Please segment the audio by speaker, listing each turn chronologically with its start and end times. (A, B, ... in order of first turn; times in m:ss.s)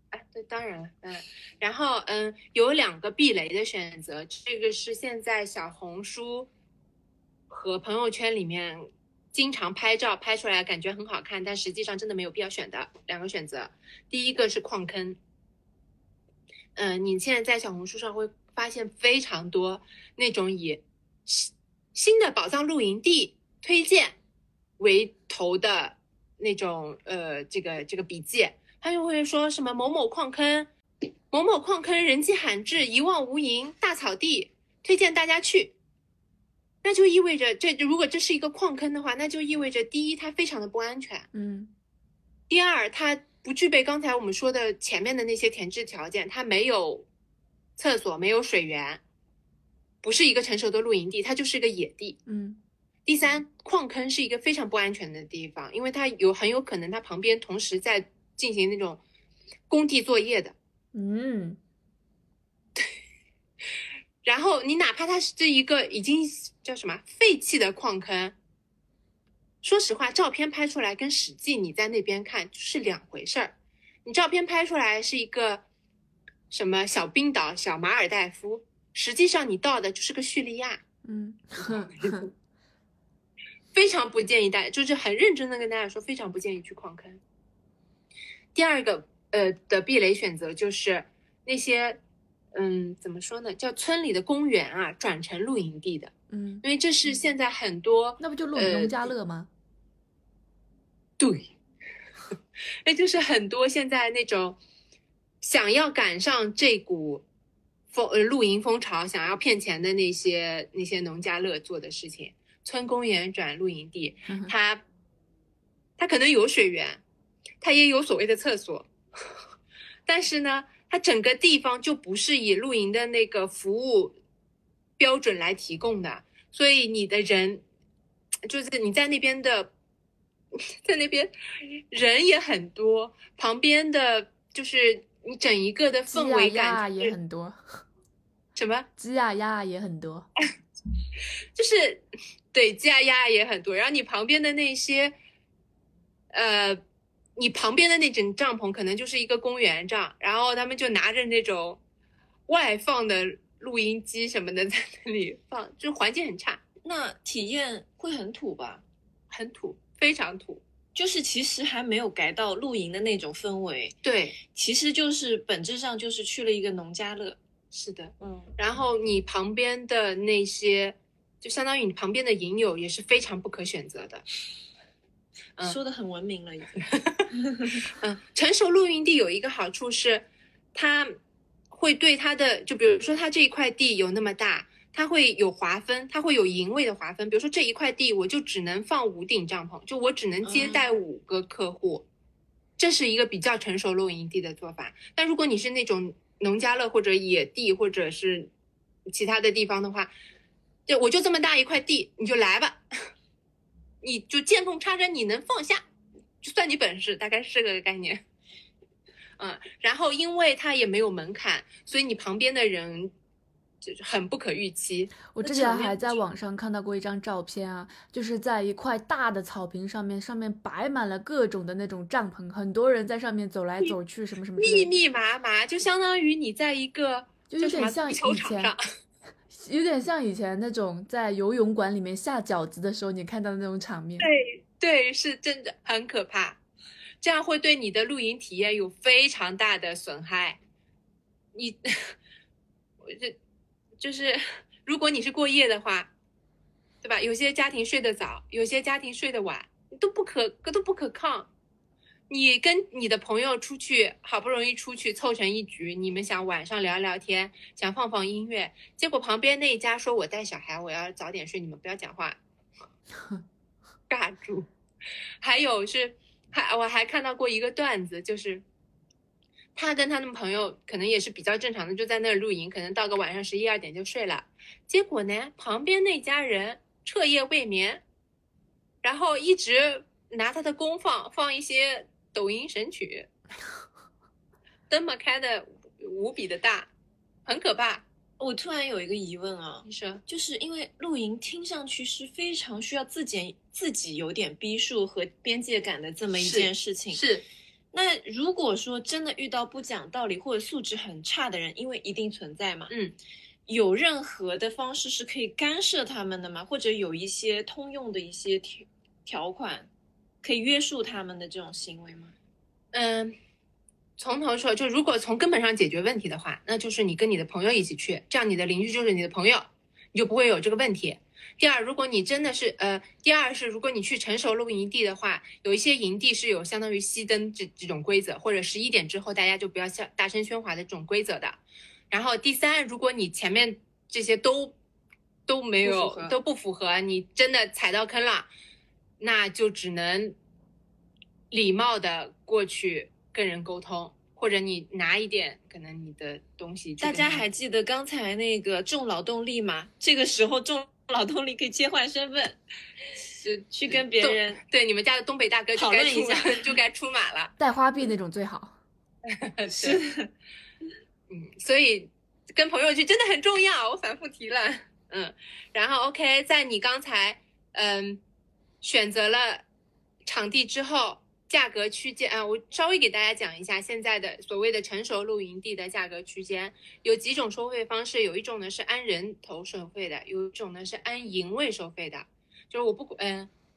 0:00.1-0:06.5 A
0:07.5-0:15.2 A
0:16.7-0:24.1 A
0:24.8-0:30.7 A
0:31.3-0:35.7 A
0:36.8-0:41.3 A
0:41.3-0:41.7 B
0:42.5-0:47.0 A
0:47.8-0:49.0 A
0:50.0-0:52.2 A
0:52.2-0:52.6 B
0:53.0-0:59.0 A
0:59.7-1:00.5 A
1:00.9-1:01.6 B
1:04.2-1:08.3 A
1:09.6-1:15.6 A
1:16.5-1:20.8 A
1:21.0-1:22.3 B
1:21.6-1:22.3 A
1:23.7-1:27.2 A
1:28.5-1:32.0 A
1:32.5-1:39.1 A
1:36.3-1:36.6 B
1:38.2-1:39.5 B
1:41.2-1:41.5 A
1:42.8-1:44.6 A
1:45.4-1:47.2 A
1:47.9-1:54.8 A
1:54.3-1:54.5 B
1:56.0-1:57.0 A
1:57.6-1:58.9 A
2:00.1-2:04.1 A
2:05.0-2:07.6 A
2:08.4-2:09.7 A
2:10.5-2:11.3 A
2:11.9-2:17.1 A
2:16.1-2:17.8 B
2:18.6-2:18.9 A
2:19.0-2:20.3 B
2:21.6-2:25.1 A
2:26.3-2:26.8 A
2:27.4-2:31.8 A
2:32.5-2:36.6 A
2:36.8-2:38.8 C
2:39.3-2:40.6 A
2:40.9-2:47.4 C
2:44.0-2:44.4 A
2:47.7-2:54.2 A
2:48.2-2:48.5 C
2:55.6-2:57.8 C
2:56.8-2:57.2 A
2:57.9-3:01.1 A
3:01.7-3:12.0 A
3:10.4-3:10.8 C
3:12.8-3:18.5 A
3:19.1-3:20.1 A
3:20.9-3:22.8 A
3:24.0-3:25.8 A
3:26.4-3:28.2 A
3:29.4-3:33.1 A
3:33.8-3:36.2 A
3:35.3-3:44.9 B
3:44.6-3:48.8 A
3:47.5-3:48.7 B
3:49.5-3:54.3 B
3:54.2-3:56.6 A
3:57.2-4:00.6 A
4:01.5-4:02.1 A
4:03.0-4:03.4 A
4:04.0-4:06.1 A
4:07.0-4:11.5 A
4:12.3-4:22.4 A
4:24.1-4:24.7 A
4:25.4-4:28.6 A
4:29.7-4:38.0 A
4:39.0-4:43.3 A
4:44.9-4:46.9 A
4:47.4-4:48.0 A
4:48.4-4:57.2 C
4:49.8-4:50.2 A
4:56.4-4:57.4 A
4:57.9-5:02.9 C
5:03.7-5:09.9 C
5:10.4-5:12.3 C
5:12.9-5:13.3 A
5:14.2-5:31.6 A
5:32.1-5:34.8 A
5:35.5-5:38.5 A
5:35.8-5:36.4 C
5:39.2-5:40.3 A
5:41.5-5:47.4 A
5:47.0-5:52.6 C
5:53.3-5:57.5 A
5:53.7-5:54.6 C
5:55.7-5:56.7 C
5:57.6-5:58.8 B
5:59.3-6:00.0 A
5:59.7-6:00.3 C
6:01.3-6:08.2 A
6:08.8-6:09.6 A
6:10.2-6:23.5 A